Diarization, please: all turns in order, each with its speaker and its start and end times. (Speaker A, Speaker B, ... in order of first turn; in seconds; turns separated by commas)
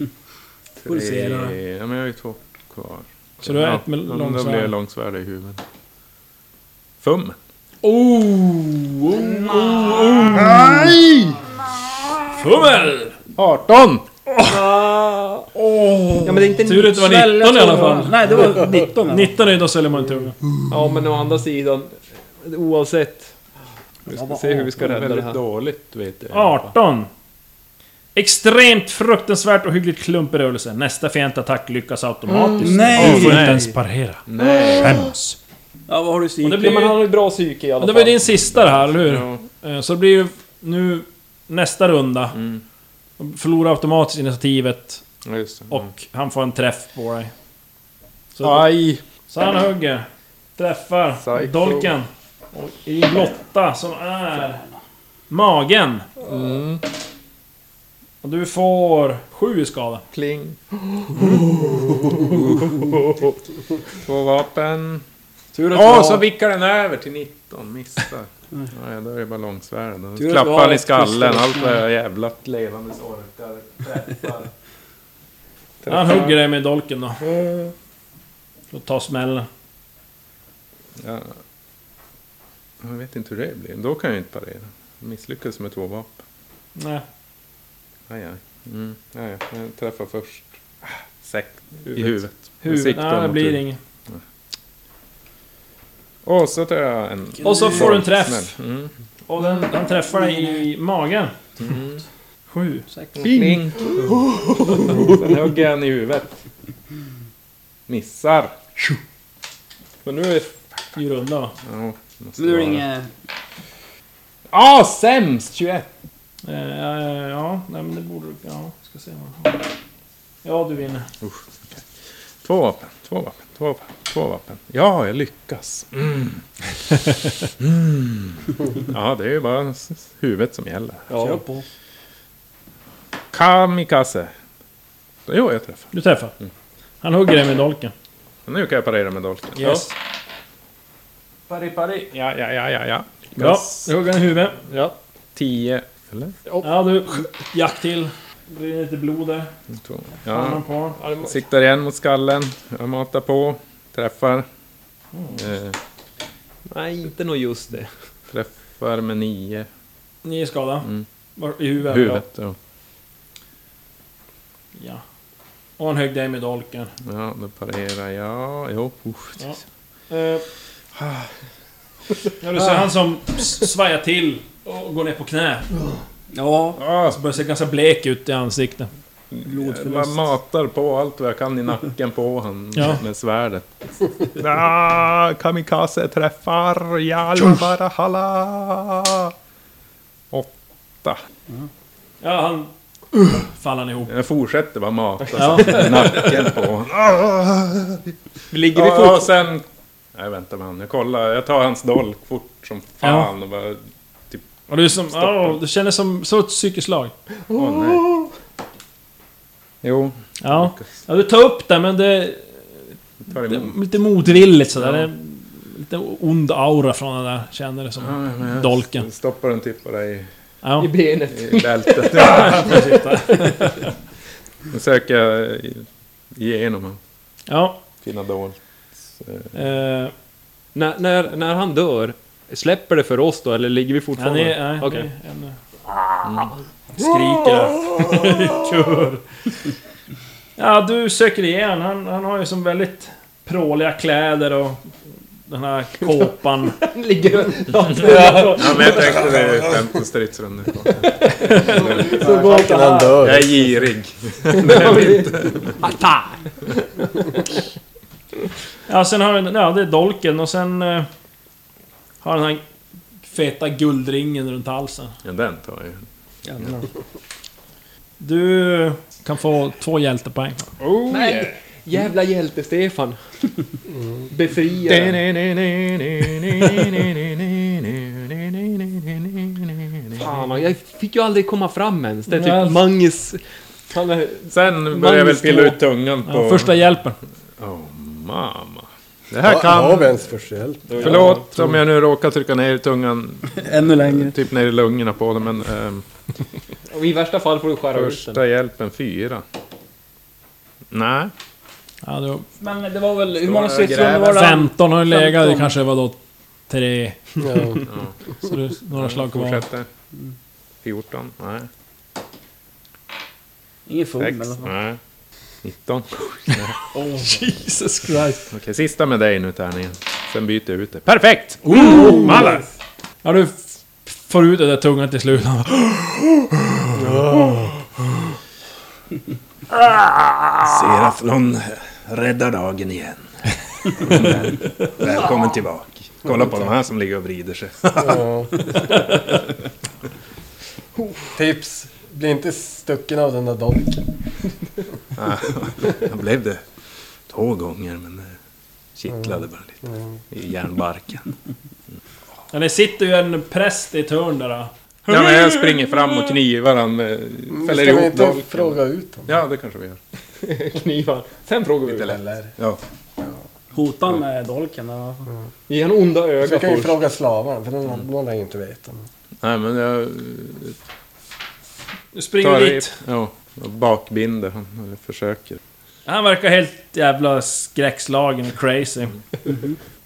Speaker A: 0.8-5.6, Speaker B: 0.9-1.5, Speaker C: 3.4-4.7, Speaker A: 7.0-7.4, Speaker C: 7.8-10.7, Speaker B: 9.1-10.4, Speaker A: 9.9-11.4, Speaker C: 12.3-13.2, Speaker A: 13.4-14.1, Speaker C: 14.3-14.6, Speaker D: 14.4-15.5, Speaker A: 15.5-16.5, Speaker D: 16.2-17.0, Speaker C: 16.6-20.4, Speaker B: 16.7-19.3, Speaker D: 20.7-23.3, Speaker D: 24.1-25.4, Speaker B: 24.1-24.9, Speaker A: 24.8-26.7, Speaker C: 26.3-27.1, Speaker C: 28.1-35.4, Speaker A: 32.5-33.6, Speaker B: 32.6-33.7, Speaker D: 33.0-33.3, Speaker A: 34.3-35.1, Speaker B: 34.4-34.9, Speaker B: 35.9-37.0, Speaker D: 36.4-38.2, Speaker C: 37.8-42.4, Speaker A: 38.8-39.4, Speaker A: 42.3-42.6, Speaker C: 43.2-45.0, Speaker A: 45.2-45.9, Speaker C: 45.7-47.3, Speaker C: 48.4-48.7, Speaker A: 48.4-49.0, Speaker C: 49.3-50.0, Speaker C: 50.6-54.6, Speaker A: 51.2-51.9, Speaker C: 55.3-56.2, Speaker A: 56.2-56.8, Speaker C: 58.2-60.0, Speaker A: 60.1-63.4, Speaker A: 64.0-65.0, Speaker C: 65.5-65.8, Speaker A: 65.7-74.5, Speaker B: 70.2-71.8, Speaker A: 75.8-76.4, Speaker C: 75.8-77.2, Speaker A: 77.2-77.7, Speaker C: 78.7-79.5, Speaker A: 81.0-81.4, Speaker A: 82.8-86.2, Speaker C: 86.8-87.0, Speaker A: 88.1-94.2, Speaker D: 91.8-92.2, Speaker C: 92.6-93.8, Speaker A: 96.2-99.6, Speaker C: 97.4-98.5, Speaker C: 99.3-101.3, Speaker B: 100.2-100.6, Speaker A: 101.6-102.0, Speaker C: 102.5-102.9, Speaker A: 103.2-106.3, Speaker D: 103.2-105.3, Speaker A: 107.9-108.6, Speaker D: 110.0-110.5, Speaker C: 111.0-111.5, Speaker A: 111.6-112.8, Speaker B: 112.4-113.1, Speaker A: 114.5-115.8, Speaker C: 116.4-119.6, Speaker C: 120.4-121.1, Speaker A: 121.2-121.8, Speaker A: 122.4-126.4, Speaker A: 127.6-131.1, Speaker D: 131.1-131.4, Speaker B: 131.2-131.6, Speaker A: 133.3-134.3, Speaker A: 135.3-135.9, Speaker C: 135.9-136.3, Speaker C: 137.0-137.9, Speaker A: 138.5-139.8, Speaker C: 139.6-139.9, Speaker A: 141.5-143.9, Speaker C: 143.3-144.6, Speaker D: 144.7-144.9, Speaker A: 145.3-146.4, Speaker C: 146.6-149.5, Speaker A: 149.7-154.4, Speaker C: 150.3-151.0, Speaker D: 151.0-151.4, Speaker C: 155.1-155.5, Speaker A: 155.3-155.8, Speaker D: 156.7-157.9, Speaker A: 158.3-159.7, Speaker C: 160.2-162.2, Speaker A: 161.8-162.6, Speaker C: 164.7-165.0, Speaker C: 165.8-166.9, Speaker A: 167.0-169.6, Speaker C: 170.1-170.4, Speaker A: 170.9-171.3, Speaker C: 172.4-175.7, Speaker B: 176.3-176.8, Speaker A: 176.8-177.2, Speaker C: 177.1-178.9, Speaker A: 179.3-183.6, Speaker B: 179.4-180.3, Speaker C: 182.7-183.0, Speaker A: 184.2-189.3, Speaker A: 190.3-191.2, Speaker C: 192.2-194.1, Speaker A: 194.1-204.5, Speaker C: 195.3-196.3, Speaker D: 195.6-196.3, Speaker D: 198.5-199.4, Speaker C: 203.0-203.3, Speaker C: 204.7-207.1, Speaker A: 205.0-205.6, Speaker D: 207.5-208.2, Speaker A: 207.5-208.1, Speaker A: 209.8-210.9, Speaker C: 210.4-212.8, Speaker A: 213.3-213.8, Speaker C: 213.3-219.1, Speaker A: 214.8-215.1, Speaker A: 218.0-220.3, Speaker C: 220.6-220.9, Speaker D: 220.8-223.5, Speaker A: 221.3-222.9, Speaker C: 222.2-223.9, Speaker A: 224.7-227.0, Speaker C: 227.5-227.8, Speaker A: 228.0-228.6, Speaker A: 229.2-229.5, Speaker C: 229.5-230.1, Speaker D: 230.7-235.1, Speaker C: 234.2-235.6, Speaker D: 235.9-236.5, Speaker A: 236.2-236.5, Speaker C: 236.9-239.2, Speaker C: 240.6-244.8, Speaker C: 245.5-246.8, Speaker D: 246.8-249.5, Speaker A: 247.9-252.3, Speaker E: 248.1-249.0, Speaker C: 251.3-251.7, Speaker B: 251.6-253.3, Speaker E: 251.7-253.5, Speaker A: 253.2-255.8, Speaker D: 254.5-257.4, Speaker C: 258.9-261.1, Speaker C: 262.2-262.6, Speaker C: 263.2-265.1, Speaker A: 265.2-266.0, Speaker A: 266.6-266.8, Speaker C: 268.2-270.7, Speaker A: 270.8-271.4, Speaker D: 270.8-273.2, Speaker B: 271.1-271.5, Speaker D: 274.3-275.2, Speaker A: 274.8-280.3, Speaker D: 280.1-285.8, Speaker C: 282.3-282.8, Speaker A: 284.5-286.7, Speaker C: 286.2-287.2, Speaker A: 287.6-290.2, Speaker E: 289.4-291.4, Speaker D: 290.9-291.5, Speaker A: 291.0-296.0, Speaker B: 293.5-294.4, Speaker D: 296.9-298.4, Speaker A: 297.9-299.4, Speaker A: 300.9-301.3, Speaker C: 302.0-302.4, Speaker B: 302.6-305.7, Speaker A: 303.4-304.5, Speaker C: 304.3-306.2, Speaker C: 306.7-307.8, Speaker E: 307.4-307.8, Speaker A: 307.9-308.1, Speaker C: 308.4-309.6, Speaker A: 308.9-309.9, Speaker A: 310.8-311.7, Speaker B: 313.9-314.7, Speaker A: 314.2-315.0, Speaker A: 315.6-316.8, Speaker B: 316.9-317.3, Speaker C: 317.1-318.5, Speaker A: 318.5-322.3, Speaker C: 321.7-322.6, Speaker C: 323.2-327.5, Speaker E: 326.9-327.8, Speaker A: 330.5-333.3, Speaker A: 333.9-338.4, Speaker E: 338.0-338.8, Speaker E: 341.3-344.1, Speaker A: 345.1-346.6, Speaker A: 347.3-348.3, Speaker A: 348.9-349.8, Speaker A: 350.3-351.3, Speaker C: 352.5-356.4, Speaker A: 355.1-360.0, Speaker E: 357.5-359.3, Speaker D: 360.4-362.2, Speaker A: 361.9-362.8, Speaker E: 362.0-362.5, Speaker B: 363.7-365.3, Speaker D: 365.7-367.0, Speaker E: 366.4-369.1, Speaker A: 369.4-370.8, Speaker C: 372.1-373.0, Speaker A: 372.4-375.6, Speaker C: 376.1-379.2, Speaker B: 379.5-379.8